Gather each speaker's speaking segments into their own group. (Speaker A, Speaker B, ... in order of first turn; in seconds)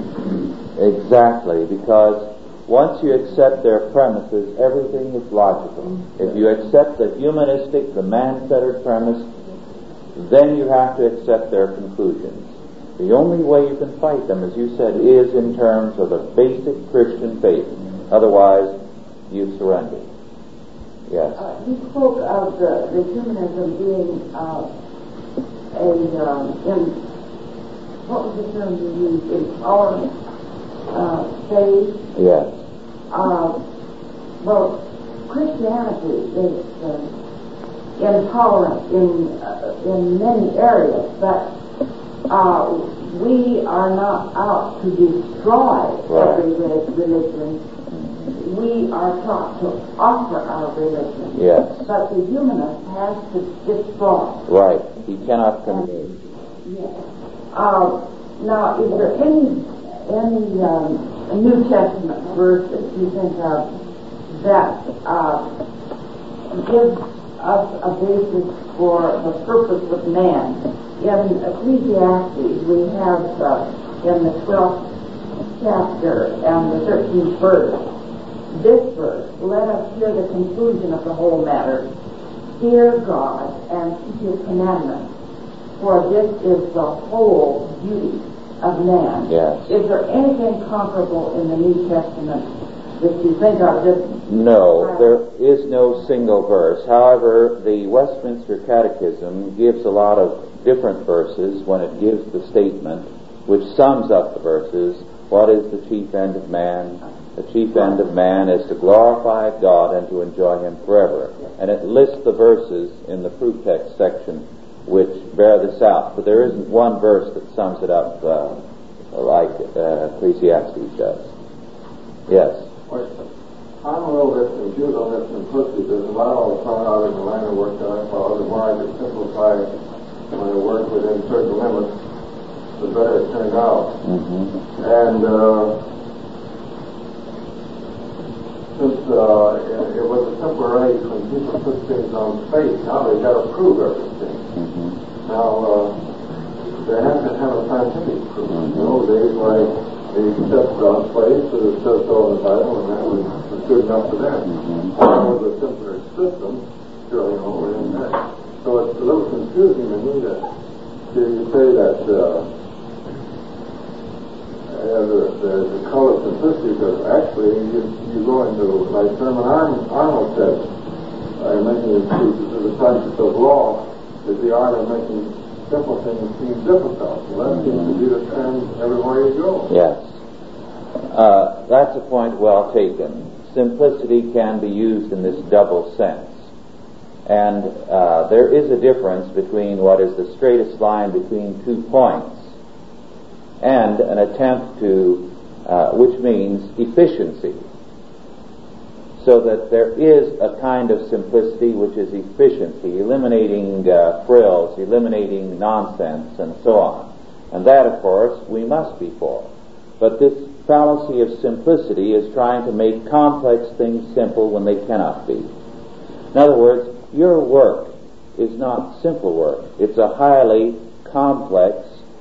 Speaker A: 0.7-9.3, 10.1-18.8, 19.3-20.1, 21.1-21.4, 32.1-32.6, 46.1-46.4, 47.9-48.3, 51.3-51.9, 54.5-56.1, 89.3-89.7, 94.2-118.6, 119.1-121.3, 122.3-122.7, 134.0-134.5, 144.6-144.9, 148.5-148.9, 154.5-154.9, 179.7-180.2, 181.1-186.5, 187.2-192.5, 193.6-197.6, 199.2-215.5, 216.3-222.0
Speaker B: 21.4-24.7, 25.7-27.0, 28.0-30.1, 30.9-32.0, 33.1-33.6, 34.4-37.1, 38.0-41.5, 42.3-47.6, 48.3-54.5, 55.6-63.7, 64.3-65.5, 66.5-74.9, 75.5-77.9, 78.5-81.9, 82.6-85.1, 85.8-95.1
Speaker C: 122.9-123.1, 123.8-129.7, 130.3-131.9, 132.8-133.9, 134.8-135.8, 138.7-144.5, 145.2-146.0, 146.8-160.4, 161.1-162.5, 164.7-170.7, 171.4-179.7